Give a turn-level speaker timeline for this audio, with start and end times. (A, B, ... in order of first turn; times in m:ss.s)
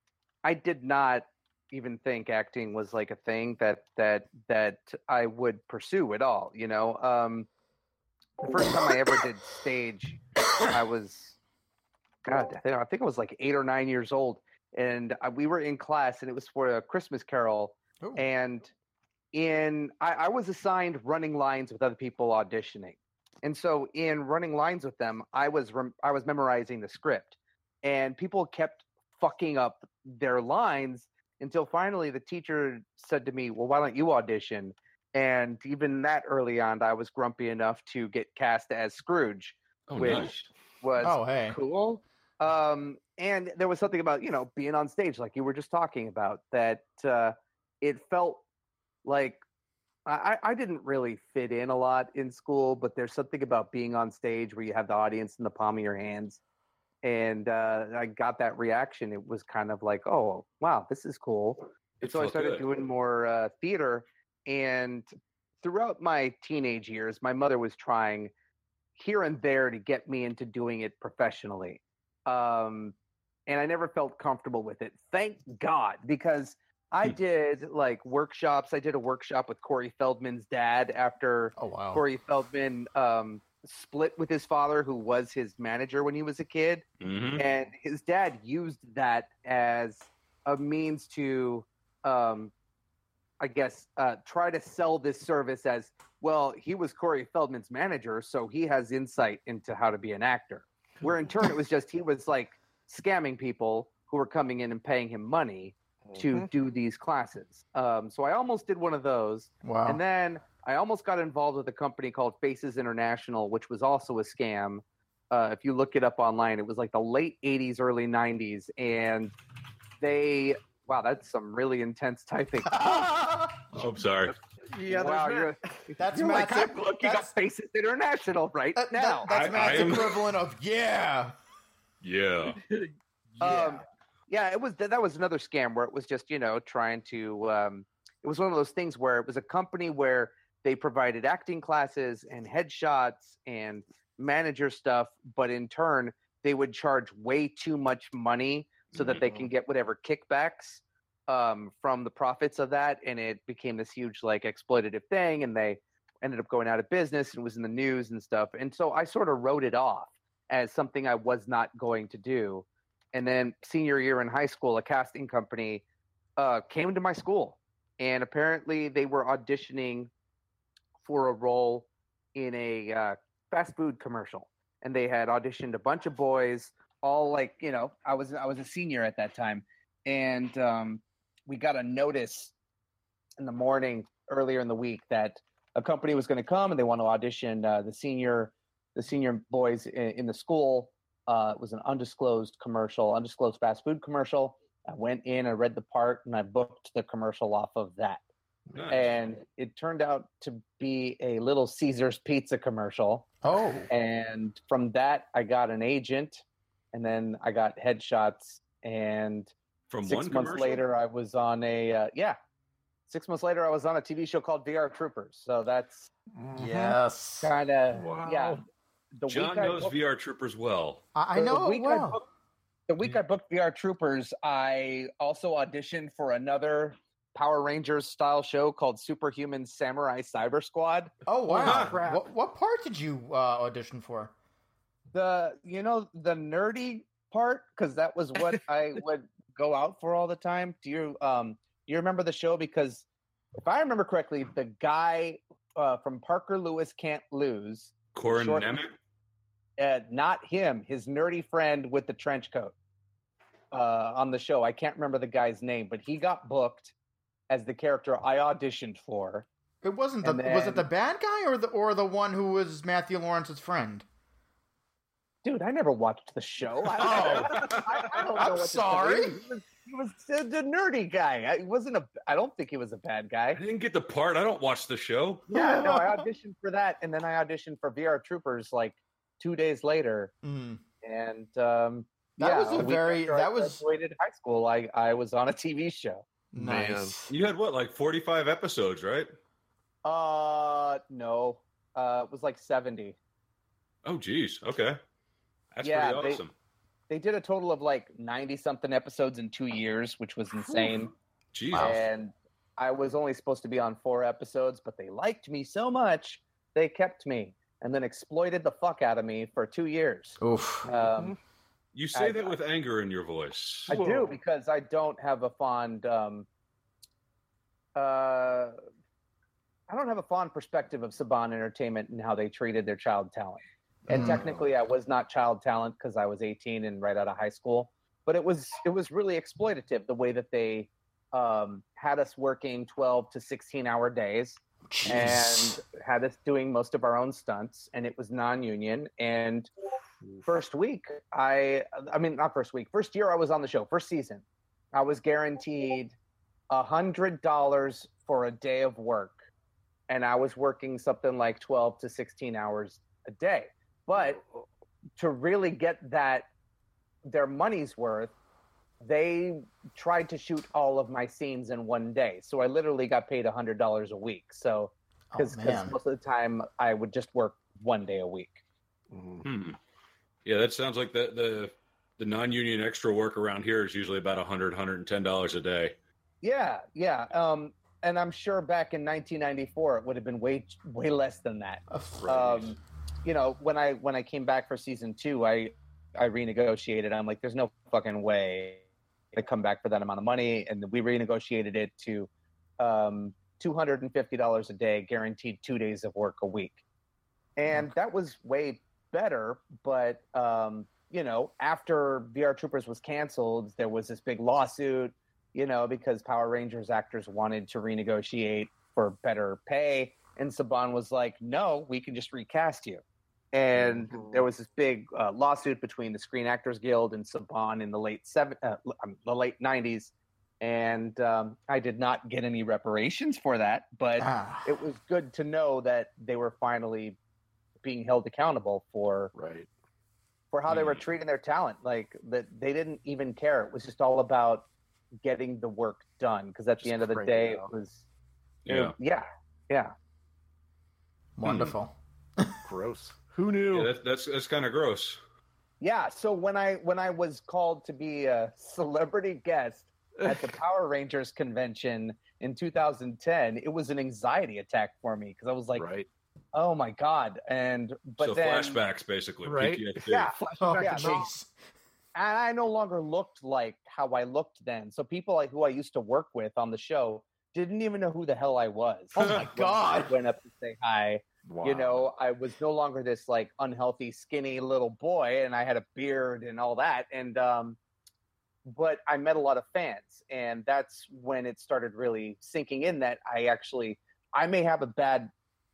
0:00.4-0:07.5 A
0:08.4-0:11.4 A
0:12.2-0:18.7 A
0:19.3-0:48.4 A
0:39.9-0:40.4 B
0:41.0-0:41.6 C
0:49.0-0:49.4 A
0:50.0-0:56.4 A
0:57.0-1:05.1 A
1:02.0-1:02.6 B
1:05.6-1:08.3 A
1:09.0-1:12.9 A
1:13.5-1:26.8 A
1:21.6-1:22.0 C
1:27.0-1:27.4 B
1:27.4-1:32.5 A
1:33.4-1:59.3 A
1:41.0-1:41.3 D
1:46.0-1:46.5 D
1:49.6-1:50.0 C
2:00.0-2:03.2 A
2:02.7-2:03.6 C
2:03.7-2:04.4 B
2:04.7-2:05.5 D
2:04.9-2:10.0 A
2:06.0-2:07.3 C
2:08.8-2:11.3 C
2:09.3-2:10.3 B
2:12.0-2:12.6 B
2:13.4-2:13.8 C
2:13.4-2:45.8 A
2:28.9-2:29.3 B
2:46.4-2:50.1 A
2:51.0-3:02.5 A
3:03.4-3:18.2 A
3:18.7-3:19.0 B
3:18.9-3:23.3 A
3:23.4-3:23.9 C
3:23.9-3:29.5 A
3:29.9-3:30.8 B
3:30.0-3:32.4 A
3:33.1-3:36.1 A
3:36.3-3:37.0 D
3:36.6-3:37.5 C
3:37.4-3:38.6 A
3:37.9-3:38.6 D
3:39.2-3:39.9 A
3:39.3-3:41.0 B
3:41.1-3:42.2 C
3:41.3-3:42.2 A
3:42.9-3:52.2 A
3:51.2-3:54.3 C
3:51.6-3:51.9 B
3:55.1-4:03.0 A
4:03.6-4:08.8 A
4:08.1-4:08.9 B
4:09.8-4:12.7 A
4:13.7-4:16.9 A
4:17.5-4:19.4 A
4:19.8-4:24.0 C
4:20.2-4:20.8 A
4:25.4-4:33.6 A
4:26.9-4:29.4 C
4:27.1-4:27.8 B
4:33.5-4:35.5 B
4:35.5-4:36.2 C
4:35.5-4:40.3 A
4:40.4-4:40.8 C
4:41.0-4:46.2 A
4:42.4-4:43.8 C
4:46.5-4:47.3 C
4:46.5-4:47.1 D
4:47.3-4:49.3 B
4:50.0-4:53.2 A
4:54.0-4:55.0 B
4:55.7-4:56.5 B
4:55.8-4:56.4 A
4:57.1-5:01.1 A
5:01.5-5:02.0 B
5:01.7-5:02.0 C
5:01.7-5:11.4 A
5:10.4-5:10.9 C
5:11.0-5:11.3 D
5:11.9-5:13.9 B
5:12.1-5:12.6 A
5:13.9-5:16.5 A
5:13.9-5:14.4 D
5:18.0-5:18.8 A
5:19.9-5:39.7 A
5:24.1-5:24.4 C
5:24.1-5:24.6 D
5:34.9-5:35.8 C
5:40.4-5:46.1 A
5:46.7-5:49.4 A
5:50.1-5:54.4 A
5:55.2-5:56.5 A
5:57.2-5:58.3 A
5:59.0-6:08.6 A
6:05.3-6:06.0 C
6:09.1-6:09.4 D
6:09.4-6:09.8 B
6:10.4-6:15.9 B
6:16.4-6:28.8 A
6:21.9-6:22.6 C
6:29.3-6:36.8 A
6:37.6-6:53.0 A
6:53.5-7:07.2 A
6:53.7-6:54.5 D
7:04.2-7:04.7 C
7:07.8-7:09.3 A
7:09.3-7:09.7 D
7:10.5-7:14.6 A
7:10.7-7:11.0 B
7:15.2-7:18.0 A
7:16.8-7:17.7 D
7:18.6-7:18.9 B
7:18.7-7:19.9 A
7:21.4-7:22.6 C
7:21.4-7:21.7 B
7:22.6-7:23.9 D
7:23.7-7:25.2 B
7:25.8-7:35.8 A
7:30.2-7:30.5 D
7:35.8-7:36.1 D
7:36.5-7:38.8 A
7:38.2-7:40.3 B
7:39.4-7:41.3 D
7:40.0-7:41.2 A
7:40.6-7:41.5 C
7:42.1-7:57.8 A
7:49.1-7:50.1 C
7:49.2-7:49.4 B
7:51.4-7:52.1 D
7:58.6-8:05.3 A